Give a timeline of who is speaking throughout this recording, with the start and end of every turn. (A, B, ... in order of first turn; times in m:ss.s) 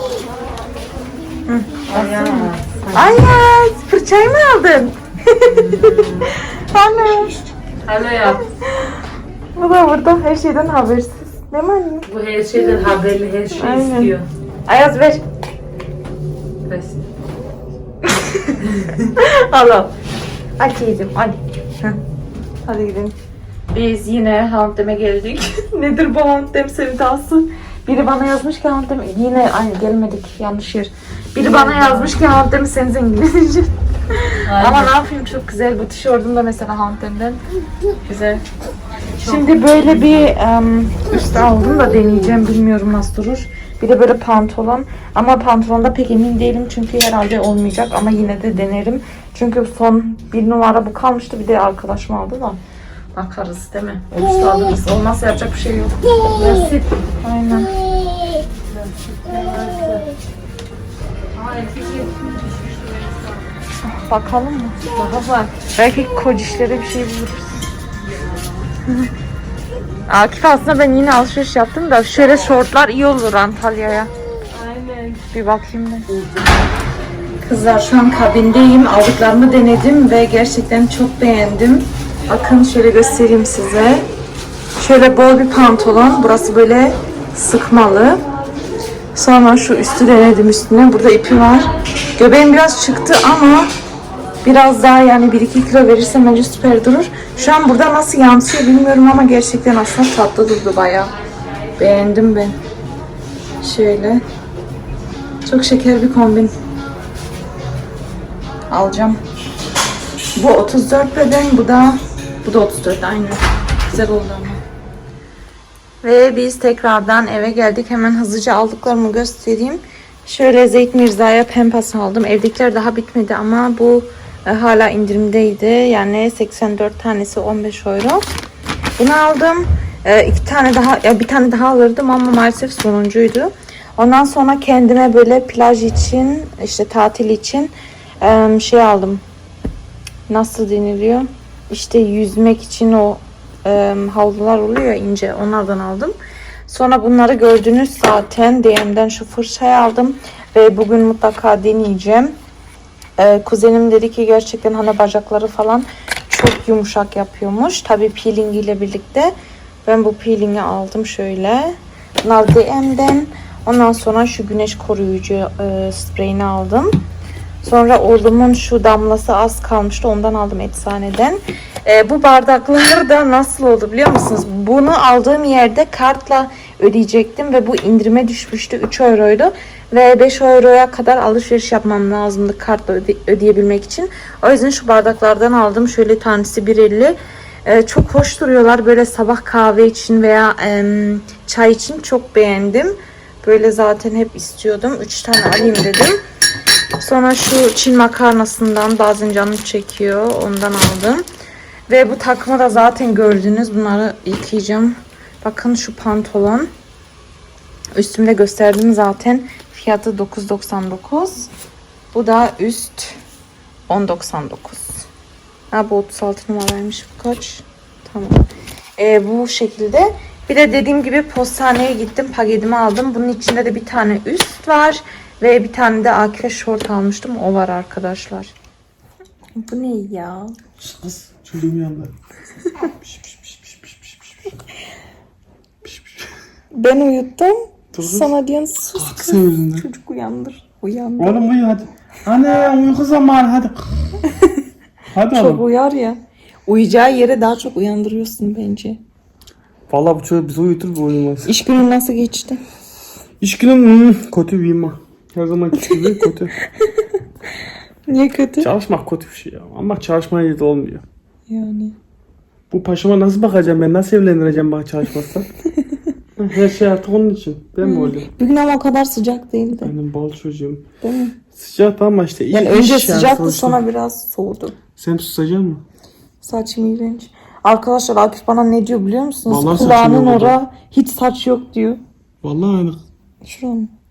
0:01.5-0:07.4 A
0:01.9-0:03.3 B
0:05.4-0:06.4 B
0:07.2-0:08.5 B
0:08.6-0:09.0 A
0:09.6-0:12.9 A
0:12.1-0:14.3 B
0:13.5-0:14.2 A
0:14.7-0:15.2 A
0:16.7-0:17.1 B
0:18.2-0:19.9 A
0:18.6-0:19.1 B
0:20.6-0:22.0 A
0:22.6-0:23.2 A
0:23.7-0:37.4 A
0:31.4-0:32.2 B
0:34.5-0:35.0 B
0:38.0-0:38.4 A
0:39.2-0:40.3 B
0:39.2-0:52.6 A
0:53.1-0:56.0 A
0:56.3-0:57.0 B
0:57.2-0:57.7 A
0:58.7-1:00.1 B
1:01.4-1:03.4 B
1:03.8-1:04.8 A
1:05.0-1:05.5 B
1:05.7-1:07.7 A
1:10.1-1:14.1 A
1:14.5-1:15.2 B
1:15.3-1:16.1 A
1:17.4-1:24.1 A
1:24.8-1:28.2 A
1:29.1-1:33.7 A
1:34.4-1:41.1 A
1:41.8-1:42.6 A
1:43.6-1:44.2 A
1:45.4-1:46.5 A
1:48.7-1:49.2 A
1:50.4-1:54.6 A
1:56.0-2:08.2 A
2:09.0-2:19.2 A
2:20.3-2:26.2 A
2:26.7-2:32.4 A
2:33.2-2:39.3 A
2:39.8-2:47.0 A
2:47.6-3:16.2 A
3:17.0-3:21.2 A
3:21.9-3:26.7 A
3:27.9-3:31.5 A
3:32.1-3:33.2 A
3:33.9-3:35.1 A
3:35.7-3:48.5 A
3:49.6-3:50.6 A
3:50.8-3:52.1 C
3:52.8-3:54.5 C
3:55.8-3:56.3 C
3:56.7-4:01.4 A
3:57.9-3:58.4 C
3:59.0-3:59.9 C
4:01.2-4:04.2 C
4:04.3-4:04.6 A
4:05.1-4:05.6 C
4:05.3-4:09.0 A
4:09.9-4:11.5 C
4:11.4-4:12.6 A
4:13.4-4:16.5 C
4:15.8-4:17.1 A
4:18.1-4:18.7 A
4:18.6-4:21.0 C
4:21.5-4:22.0 A
4:22.7-4:25.5 C
4:26.4-4:28.3 C
4:27.8-4:29.9 A
4:29.8-4:30.8 C
4:31.0-4:31.4 A
4:31.5-4:33.8 C
4:32.5-4:34.8 A
4:35.0-4:35.8 C
4:36.4-4:42.0 A
4:39.5-4:40.6 C
4:42.4-4:43.0 C
4:43.4-4:43.9 A